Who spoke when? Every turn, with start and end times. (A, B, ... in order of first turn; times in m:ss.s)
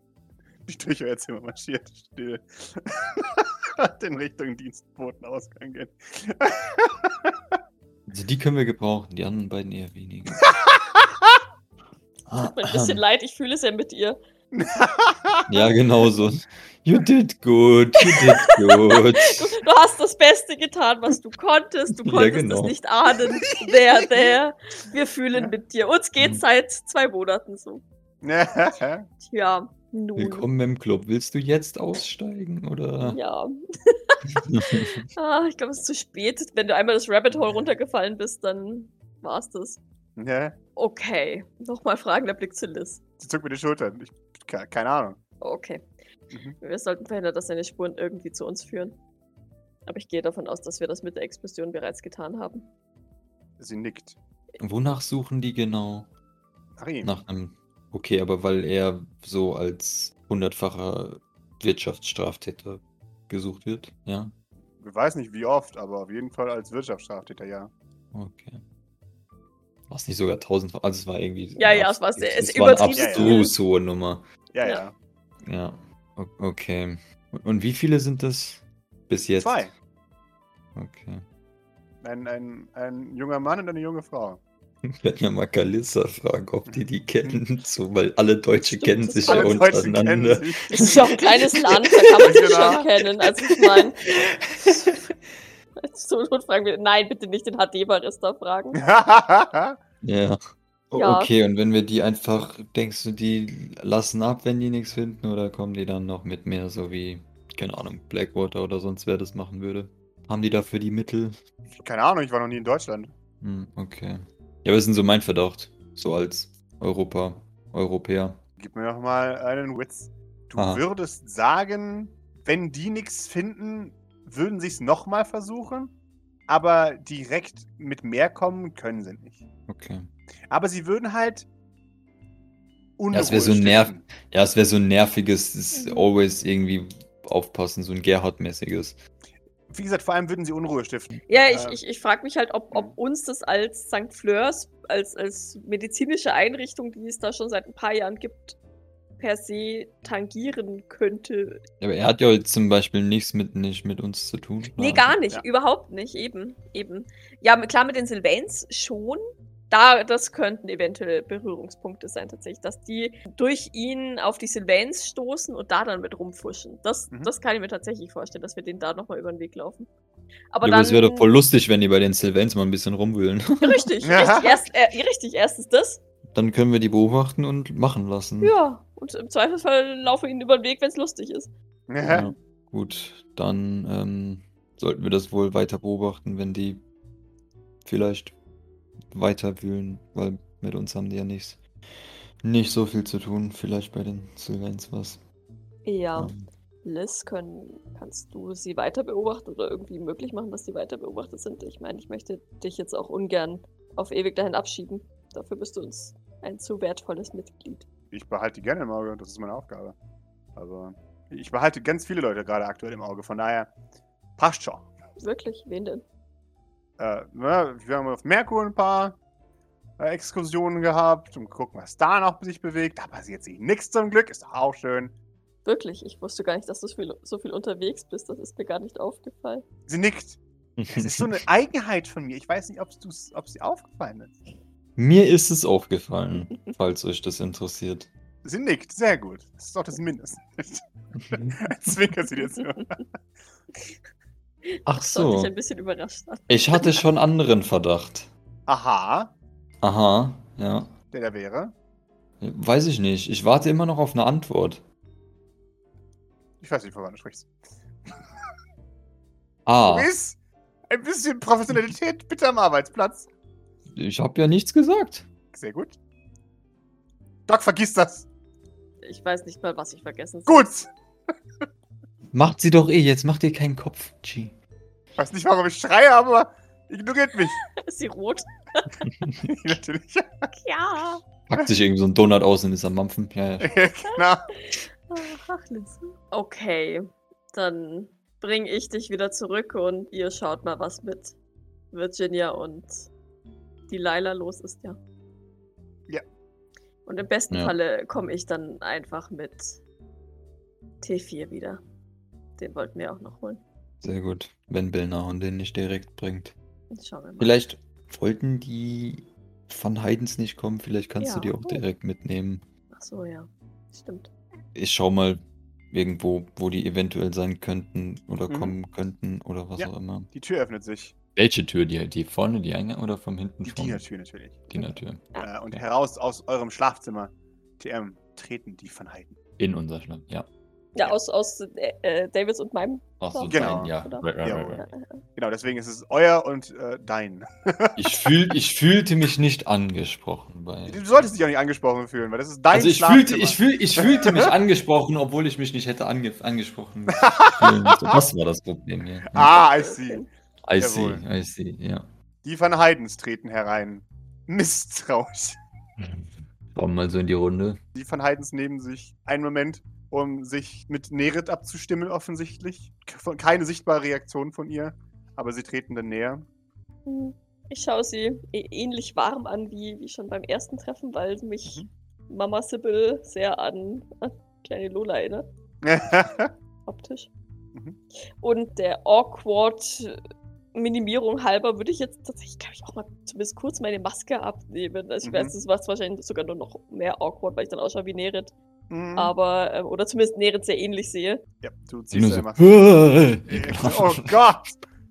0:00.6-0:07.6 A
0:08.1-0:10.5 B
0:10.5-0:11.4 A
0:12.3-0:13.0 B
0:12.4-0:14.2 C
0:14.5-0:15.6 A
0:15.5-0:19.6 B
0:18.1-0:27.8 C
0:22.0-0:22.8 B
0:28.2-0:29.1 A
0:29.2-0:30.5 C
0:30.2-0:33.2 B
0:33.1-0:39.8 C
0:34.4-0:35.0 B
0:37.3-0:37.7 A
0:40.2-0:40.6 A
0:40.8-0:43.0 C
0:43.2-0:45.2 A
0:45.4-0:45.8 C
0:46.6-0:49.0 C
0:49.9-0:52.7 C
0:53.6-0:54.2 A
0:54.6-0:56.1 B
0:56.8-0:57.1 A
0:57.0-1:04.3 B
1:04.8-1:07.7 A
1:08.1-1:08.6 B
1:09.9-1:14.2 B
1:11.6-1:13.5 C
1:13.0-1:13.4 A
1:14.5-1:15.0 A
1:15.4-1:19.7 B
1:19.4-1:19.7 A
1:20.8-1:21.2 B
1:22.0-1:24.4 A
1:24.8-1:32.5 B
1:26.7-1:27.4 A
1:28.6-1:29.8 C
1:29.3-1:31.3 A
1:30.7-1:34.0 C
1:32.2-1:32.9 A
1:34.1-1:35.0 B
1:35.8-1:38.8 C
1:38.8-1:39.8 A
1:40.0-1:40.4 B
1:40.9-1:51.4 B
1:41.0-1:41.3 C
1:51.7-1:53.1 A
1:53.4-1:58.4 B
1:58.6-2:05.9 A
2:00.6-2:00.8 B
2:06.5-2:09.4 A
2:09.7-2:10.1 B
2:10.5-2:11.5 A
2:13.0-2:14.0 A
2:13.1-2:19.0 B
2:15.7-2:16.1 C
2:19.7-2:21.8 A
2:21.3-2:28.6 C
2:29.2-2:31.6 C
2:31.8-2:35.2 B
2:34.8-2:49.9 C
2:50.5-2:51.3 C
2:50.6-2:53.9 B
2:53.6-2:56.0 C
2:54.0-2:54.6 A
2:56.3-2:58.5 B
2:58.4-3:01.5 C
3:01.9-3:02.3 A
3:02.1-3:06.8 B
3:07.8-3:08.4 B
3:09.1-3:11.6 B
3:12.4-3:15.2 B
3:15.8-3:16.3 C
3:16.2-3:16.5 B
3:16.8-3:27.9 C
3:28.1-3:30.0 A
3:30.6-3:33.7 A
3:34.4-3:34.9 A
3:35.2-3:36.0 C
3:37.0-3:39.2 A
3:40.0-3:45.1 A
3:45.6-3:49.6 C
3:49.9-3:54.4 A
3:50.8-3:51.4 B
3:55.0-3:58.1 B
3:58.4-4:03.0 A
4:01.2-4:01.6 B
4:04.7-4:07.0 C
4:04.9-4:05.5 B
4:06.5-4:08.3 B
4:08.7-4:09.3 A
4:09.8-4:10.9 B
4:11.1-4:11.7 A
4:12.4-4:14.8 B
4:16.6-4:17.5 A
4:19.7-4:20.1 B
4:19.8-4:23.3 A
4:23.9-4:25.3 B
4:25.5-4:26.0 A
4:27.5-4:28.3 A
4:29.0-4:30.7 C
4:30.5-4:30.9 A
4:32.3-4:34.6 B
4:35.2-4:37.6 A
4:37.7-4:39.0 C
4:39.4-4:40.5 A
4:40.5-4:41.2 C
4:41.5-4:43.8 B
4:43.6-4:44.5 A
4:44.6-4:51.4 C
4:51.9-4:53.1 C
4:53.9-4:55.0 C
4:57.1-4:59.8 C
5:01.0-5:01.8 C
5:02.6-5:03.6 C
5:04.0-5:06.6 B
5:06.9-5:07.5 C
5:07.4-5:12.6 B
5:11.2-5:11.8 C
5:12.9-5:14.3 C
5:14.8-5:15.4 B
5:15.9-5:20.3 B
5:18.5-5:18.8 A
5:19.8-5:21.1 A
5:21.4-5:24.0 B
5:23.6-5:24.9 A
5:24.7-5:25.8 B
5:25.4-5:29.4 A
5:29.6-5:30.5 B
5:31.0-5:35.2 C
5:33.2-5:34.8 B
5:33.5-5:34.8 A
5:35.4-5:38.3 A
5:38.0-5:41.3 B
5:40.9-5:44.5 A
5:42.7-5:49.6 B
5:47.1-5:48.2 A
5:49.3-5:50.3 A
5:49.5-5:50.3 C
5:50.7-5:52.1 B
5:50.8-5:51.2 A
5:52.4-5:55.6 A
5:56.0-5:57.8 B
5:57.9-6:06.5 A
6:07.1-6:15.5 C
6:15.8-6:16.5 A
6:16.9-6:17.3 C
6:18.4-6:20.2 C
6:20.7-6:28.5 C
6:25.2-6:25.6 A
6:28.9-6:29.4 A
6:29.1-6:31.4 C
6:31.6-6:32.8 A
6:32.1-6:34.4 B
6:33.5-6:34.8 A